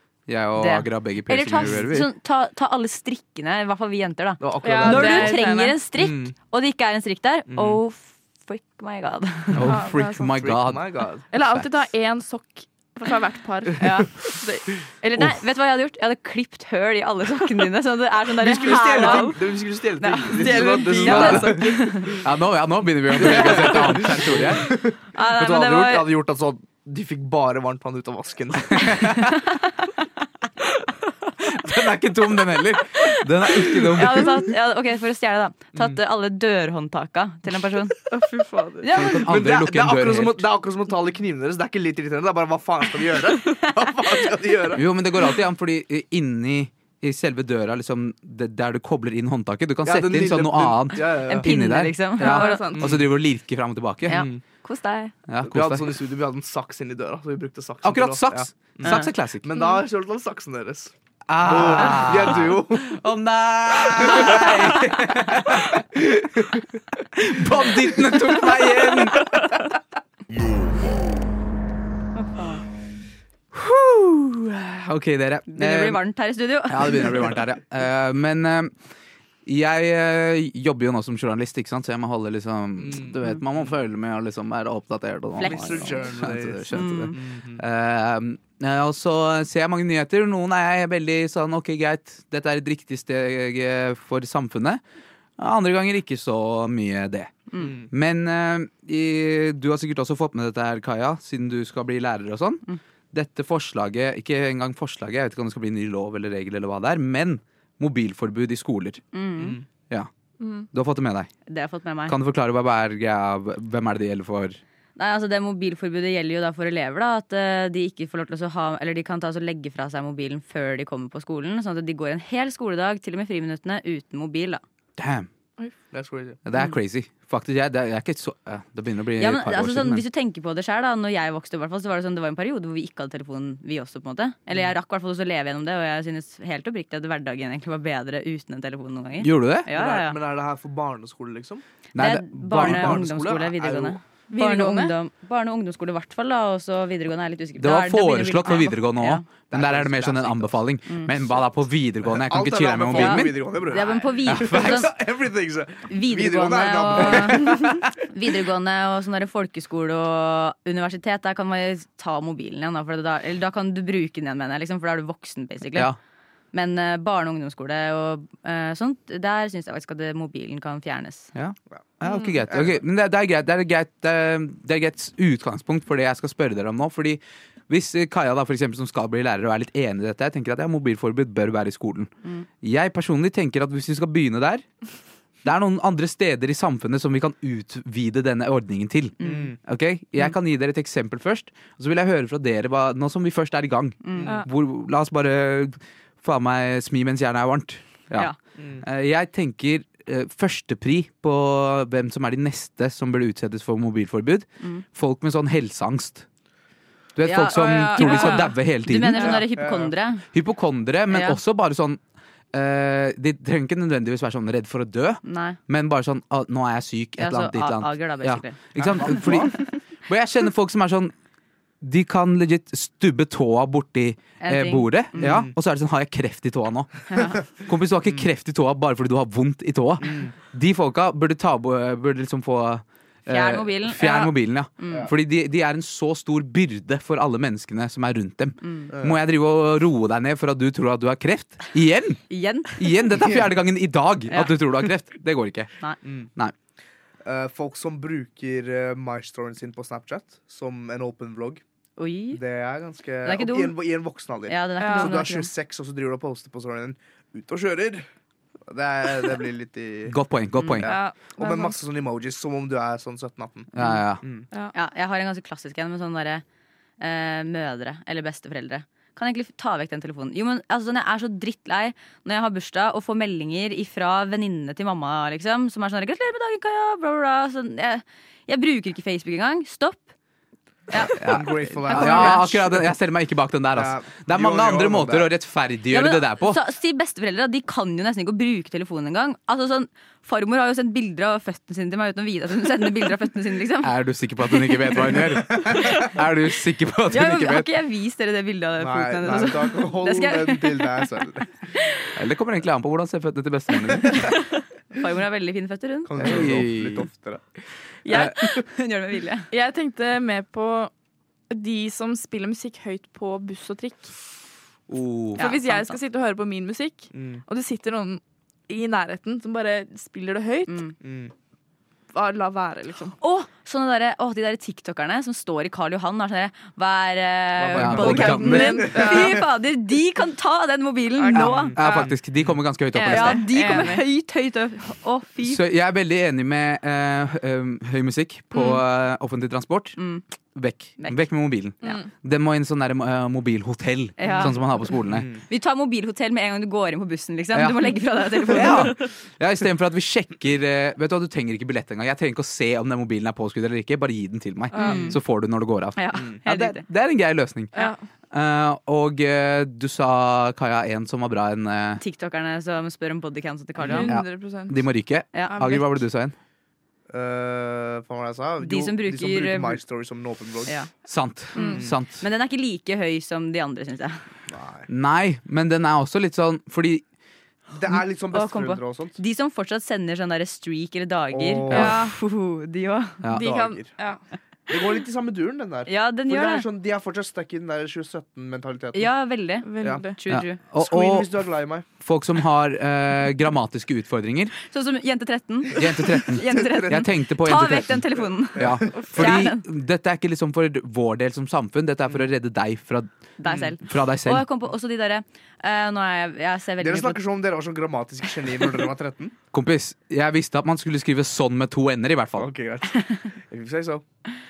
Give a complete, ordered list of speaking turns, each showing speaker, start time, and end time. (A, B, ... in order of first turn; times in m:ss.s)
0:00.3-0:02.1 A
0:00.6-0:09.7 B
0:01.5-0:01.9 C
0:04.4-0:06.3 C
0:04.6-0:05.8 D
0:07.5-0:07.8 C
0:09.5-0:10.8 A
0:09.7-0:10.3 D
0:10.3-0:11.2 C
0:11.3-0:14.6 D
0:13.8-0:14.4 B
0:15.0-0:19.4 B
0:18.4-0:22.1 C
0:18.6-0:19.4 D
0:20.0-0:22.1 B
0:20.0-0:21.8 D
0:21.0-0:21.6 A
0:22.1-0:24.7 A
0:23.1-0:29.1 C
0:25.1-0:26.2 B
0:28.7-0:29.3 A
0:31.4-0:34.3 A
0:33.8-0:38.0 B
0:38.1-0:38.9 D
0:38.8-0:39.2 B
0:38.9-0:40.4 A
0:39.0-0:44.8 C
0:44.7-0:54.2 A
0:49.8-0:51.5 C
0:51.0-0:52.8 B
0:52.2-0:52.9 D
0:52.7-0:53.0 C
0:54.1-0:54.4 C
0:54.6-0:55.1 D
0:55.3-0:55.9 A
0:55.4-1:03.0 C
0:57.8-0:59.4 A
1:01.3-1:05.8 A
1:03.9-1:04.5 C
1:05.7-1:06.6 C
1:07.1-1:09.4 A
1:12.3-1:12.6 B
1:13.5-1:16.0 A
1:15.5-1:17.4 B
1:16.7-1:18.7 A
1:19.4-1:34.8 A
1:22.8-1:23.7 C
1:25.4-1:27.6 C
1:25.4-1:26.1 B
1:26.7-1:27.2 B
1:35.4-1:49.0 A
1:37.6-1:37.9 C
1:49.1-1:49.6 B
1:49.4-1:49.6 C
1:50.4-1:50.7 D
1:50.7-1:51.3 A
1:51.5-1:52.2 B
1:52.1-1:54.6 A
1:55.0-2:04.6 B
2:05.0-2:05.3 A
2:05.9-2:06.4 C
2:06.4-2:10.0 A
2:09.2-2:20.2 B
2:19.2-2:19.7 A
2:19.7-2:21.6 C
2:21.9-2:23.1 A
2:22.0-2:29.2 B
2:22.5-2:24.0 C
2:24.3-2:24.9 D
2:27.6-2:33.4 A
2:29.5-2:30.6 C
2:32.0-2:37.8 C
2:32.9-2:34.9 B
2:34.3-2:34.7 A
2:35.9-2:45.9 B
2:46.5-2:51.3 B
2:51.3-3:02.1 A
2:52.0-2:52.4 B
2:52.5-2:52.8 C
3:02.6-3:04.6 A
3:05.4-3:26.2 A
3:09.2-3:09.6 B
3:09.2-3:09.6 C
3:14.0-3:14.4 B
3:14.1-3:14.4 C
3:18.6-3:18.8 C
3:27.2-3:29.4 A
3:27.2-3:30.3 B
3:27.5-3:28.5 D
3:29.2-3:29.9 C
3:30.3-3:32.0 A
3:31.1-3:31.4 B
3:32.5-3:41.1 A
3:35.2-3:35.6 B
3:37.2-3:39.6 B
3:38.8-3:39.5 C
3:41.8-4:02.2 A
3:44.4-3:45.4 B
3:45.2-3:45.5 C
3:47.1-3:47.4 B
3:50.0-3:50.3 C
3:53.3-3:55.1 B
3:58.6-3:58.9 B
3:58.9-3:59.2 C
4:02.3-4:03.0 B
4:02.7-4:05.7 A
4:06.0-4:06.3 C
4:07.2-4:11.6 C
4:12.0-4:12.4 B
4:12.3-4:18.0 C
4:13.2-4:13.7 B
4:14.5-4:15.5 B
4:14.8-4:15.2 D
4:18.7-4:20.2 C
4:20.1-4:20.9 A
4:20.8-4:23.7 C
4:20.8-4:21.8 D
4:23.7-4:24.2 A
4:24.7-4:26.4 B
4:27.0-4:40.1 B
4:40.9-4:42.5 B
4:41.1-4:42.9 C
4:41.1-4:46.6 A
4:43.7-4:45.3 C
4:45.9-4:53.9 B
4:53.8-4:57.6 A
4:54.6-4:55.1 B
4:55.7-4:56.1 B
4:57.1-5:01.0 B
4:58.8-5:01.5 C
5:01.8-5:02.0 B
5:02.1-5:04.3 A
5:04.9-5:06.4 B
5:06.0-5:07.4 C
5:06.2-5:07.1 A
5:08.0-5:09.5 B
5:09.5-5:10.9 D
5:11.5-5:14.1 D
5:14.9-5:15.4 A
5:15.4-5:16.0 B
5:15.4-5:20.8 D
5:17.1-5:17.4 C
5:20.7-5:20.9 B
5:21.0-5:21.3 C
5:22.1-5:23.1 D
5:23.2-5:31.8 B
5:27.7-5:29.2 C
5:27.7-5:28.9 A
5:28.0-5:29.4 D
5:31.2-5:32.1 D
5:31.3-5:32.5 C
5:31.7-5:33.4 A
5:33.0-5:35.6 B
5:33.0-5:34.0 D
5:35.4-5:40.0 A
5:38.5-5:38.8 B
5:40.0-5:40.2 B
5:40.5-5:45.3 A
5:41.8-5:42.1 D
5:44.2-5:49.1 B
5:45.1-5:45.4 C
5:47.5-5:47.8 A
5:48.4-5:57.7 A
5:54.7-5:55.2 D
5:54.7-5:55.2 B
5:56.0-5:56.8 B
5:58.3-6:02.0 A
6:02.0-6:04.1 B
6:03.8-6:04.0 C
6:03.8-6:04.8 D
6:04.1-6:06.3 A
6:05.3-6:05.6 B
6:05.5-6:06.0 D
6:07.1-6:10.8 C
6:08.6-6:09.8 B
6:11.0-6:12.2 A
6:11.5-6:14.2 B
6:11.6-6:11.8 D
6:11.6-6:11.9 C
6:14.5-6:14.9 C
6:14.9-6:17.0 A
6:17.7-6:19.2 C
6:18.3-6:23.2 B
6:21.3-6:22.0 C
6:21.7-6:22.1 D
6:23.3-6:24.2 D
6:23.3-6:23.9 C
6:24.7-6:29.1 C
6:25.9-6:26.6 B
6:28.9-6:30.6 B
6:29.6-6:30.2 D
6:30.3-6:31.3 A
6:30.7-6:31.8 C
6:32.0-6:34.5 A
6:34.6-6:39.6 B
6:35.7-6:43.1 A
6:36.4-6:37.1 C
6:38.5-6:38.9 C
6:38.9-6:39.2 D
6:43.4-6:47.2 B
6:43.4-6:43.7 C
6:43.8-6:44.4 A
6:46.8-6:49.3 C
6:49.5-6:52.5 A
6:52.4-6:54.0 C
6:52.9-6:53.3 B